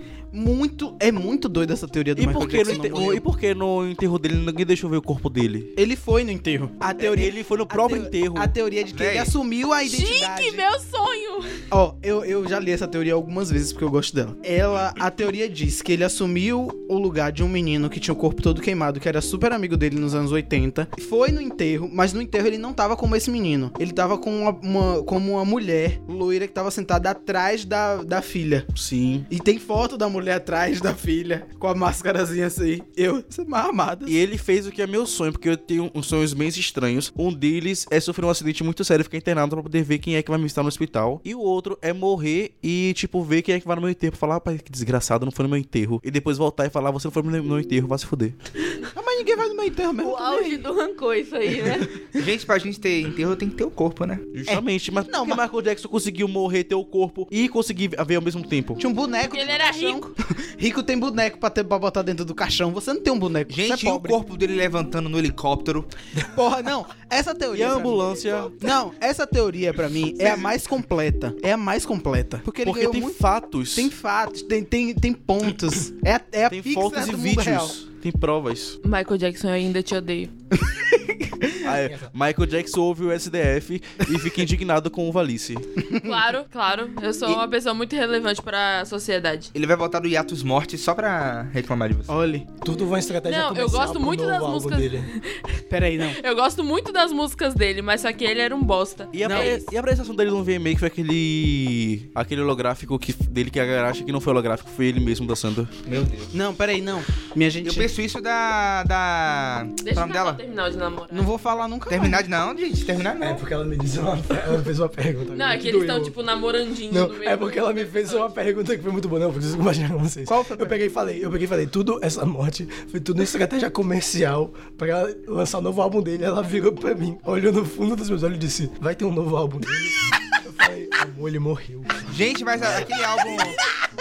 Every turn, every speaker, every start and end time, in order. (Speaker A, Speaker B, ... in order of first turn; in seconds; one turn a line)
Speaker A: 0.3-3.2
Speaker B: 2.2-5.7
Speaker A: 5.8-10.6
Speaker B: 7.0-8.5
Speaker C: 8.9-9.3
Speaker D: 9.8-11.6
Speaker A: 11.7-28.7
Speaker B: 28.8-29.3
Speaker A: 29.3-34.2
Speaker B: 34.1-48.4
Speaker A: 49.0-50.6
Speaker E: 50.0-52.0
Speaker C: 52.1-54.3
Speaker B: 54.3-58.8
Speaker A: 54.5-55.4
Speaker A: 58.8-64.2
Speaker D: 59.3-60.1
Speaker C: 63.5-65.9
Speaker A: 66.2-73.2
Speaker B: 67.5-68.6
Speaker B: 72.6-73.9
Speaker A: 73.7-77.8
Speaker B: 76.5-78.8
Speaker D: 78.8-80.3
Speaker A: 80.5-81.6
Speaker B: 81.6-85.7
Speaker F: 81.9-82.1
Speaker A: 85.8-86.2
Speaker D: 86.0-89.5
Speaker C: 89.5-92.1
Speaker A: 92.1-92.5
Speaker F: 92.6-95.1
Speaker D: 93.2-95.4
Speaker A: 95.7-96.2
Speaker D: 96.0-99.7
Speaker B: 99.1-105.7
Speaker A: 99.2-99.6
Speaker C: 105.9-106.3
Speaker A: 106.3-107.9
Speaker C: 107.6-110.4
Speaker D: 109.8-111.3
Speaker A: 111.1-112.2
Speaker C: 111.9-113.4
Speaker F: 113.2-116.2
Speaker D: 115.3-118.3
Speaker F: 116.9-133.0
Speaker A: 120.3-120.8
Speaker C: 132.1-133.6